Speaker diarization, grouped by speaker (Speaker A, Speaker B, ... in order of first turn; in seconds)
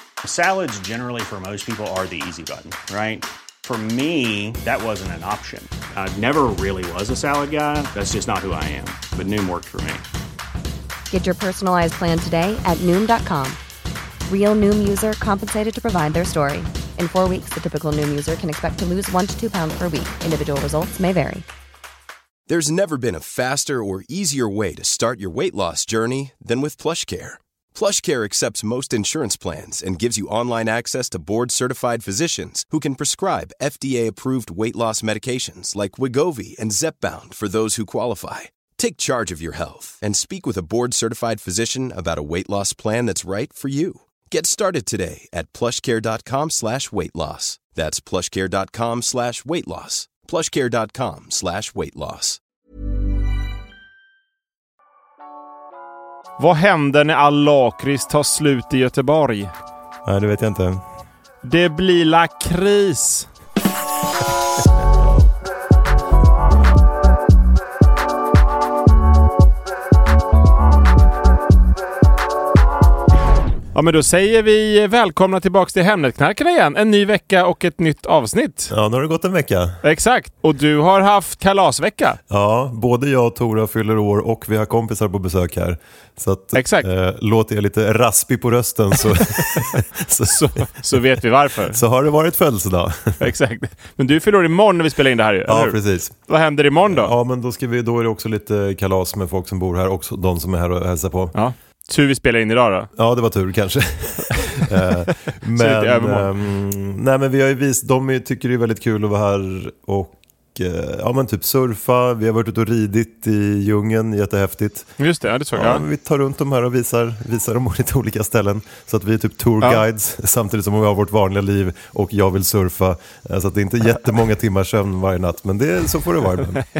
Speaker A: 0.2-10.0
Speaker B: 11.1-13.6, 14.3-21.4
Speaker C: 22.5-52.4
Speaker D: 56.4-59.5, 61.4-63.3, 73.7-78.7, 79.8-82.2, 86.5-86.9, 90.2-91.8, 93.2-97.1, 101.3-102.9, 105.5-106.3, 115.0-115.8
Speaker E: 60.0-60.8, 78.7-79.8, 82.3-91.0, 91.7-93.2, 95.5-96.1, 96.8-101.3, 102.9-114.9, 115.5-126.6